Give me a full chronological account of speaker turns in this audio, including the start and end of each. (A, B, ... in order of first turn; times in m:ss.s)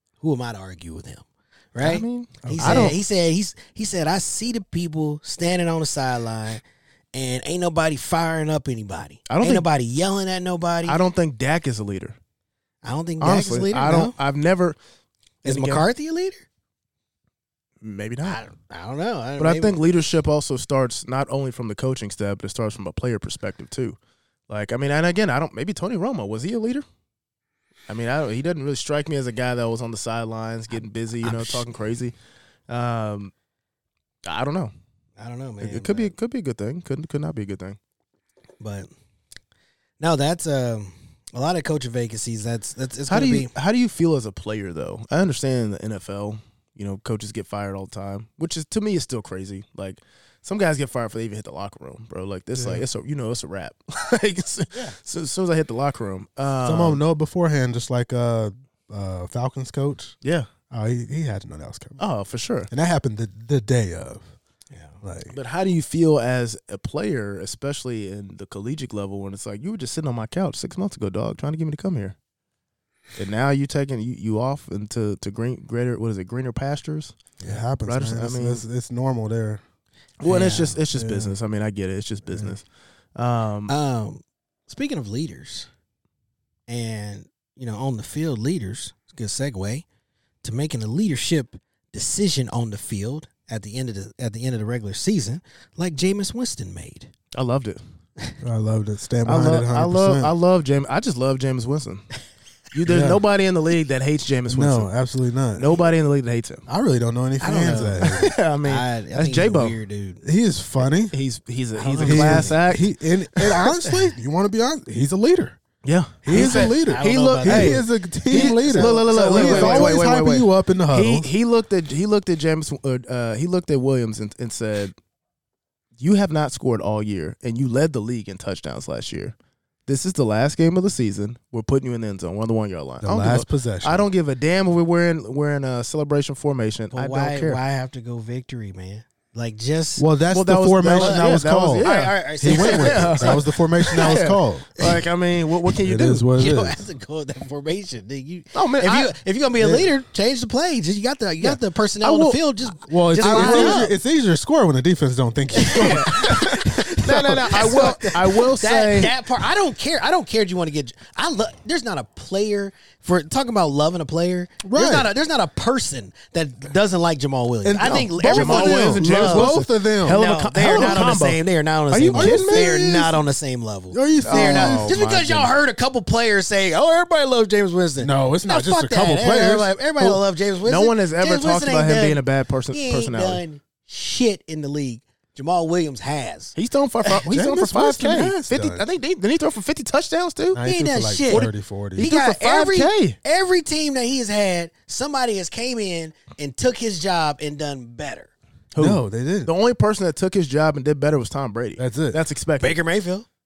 0:00.2-0:06.6 A
0:01.8-0:03.0 B
0:02.4-0:02.9 C
0:07.1-0:11.0 A
0:09.3-0:09.7 B
0:10.8-0:12.2 B
0:12.8-0:14.2 A
0:13.2-0:14.8 B
0:15.4-0:15.9 B
0:15.4-0:16.4 A
0:17.8-0:18.4 B
0:18.2-0:19.8 A
0:19.4-0:24.0 B
0:24.5-0:26.8 B
0:27.9-0:32.1 B
0:31.2-0:31.7 A
0:32.7-0:33.3 B
0:34.2-0:34.7 B
0:35.2-0:36.1 A
0:35.6-0:37.8 B
0:38.6-0:38.9 A
0:40.0-0:43.5 A
0:43.1-0:57.0 B
0:52.6-0:52.8 C
0:56.6-1:00.2 C
1:00.2-1:00.5 B
1:00.7-1:02.0 C
1:02.0-1:02.7 B
1:02.7-1:04.3 C
1:04.7-1:05.0 A
1:05.0-1:05.4 C
1:05.3-1:12.2 B
1:13.2-1:17.2 B
1:17.4-1:19.6 C
1:17.9-1:18.6 B
1:20.2-1:22.6 B
1:20.2-1:20.8 A
1:20.9-1:21.4 C
1:22.3-1:22.6 C
1:23.2-1:23.7 B
1:23.7-1:25.7 A
1:26.7-1:29.8 A
1:30.4-1:37.1 A
1:37.3-1:37.8 B
1:38.4-1:40.3 C
1:39.3-1:42.1 B
1:42.7-1:44.9 B
1:42.8-1:43.2 C
1:44.5-1:45.7 C
1:45.6-1:46.6 B
1:46.7-1:48.4 C
1:47.4-1:50.2 A
1:48.0-1:49.8 B
1:50.2-1:51.2 C
1:51.0-1:53.8 B
1:51.8-1:52.6 A
1:52.0-1:55.6 C
1:55.8-2:04.9 B
1:56.2-2:01.3 C
1:56.3-2:00.2 A
2:06.0-2:09.4 B
2:09.9-2:17.6 B
2:13.0-2:14.1 C
2:16.9-2:20.1 A
2:20.0-2:21.9 C
2:20.3-2:26.3 B
2:20.9-2:24.3 A
2:22.4-2:24.8 C
2:25.8-2:26.8 C
2:26.4-2:33.9 A
2:28.5-2:29.1 B
2:29.6-2:29.9 C
2:31.4-2:37.9 C
2:33.2-2:33.9 B
2:35.6-3:07.3 A
2:35.7-2:39.2 B
2:44.6-2:45.1 C
2:47.6-2:51.2 C
2:47.8-2:52.7 B
2:52.1-2:53.2 C
2:53.9-2:55.0 C
2:54.2-2:55.5 B
2:58.0-3:00.2 C
3:00.6-3:03.4 B
3:06.6-3:10.6 B
3:07.3-3:08.9 C
3:10.5-3:12.1 C
3:10.6-3:18.3 A
3:11.3-3:13.2 B
3:18.7-3:22.8 B
3:18.8-3:19.5 C
3:21.8-3:22.2 C
3:22.6-3:23.3 A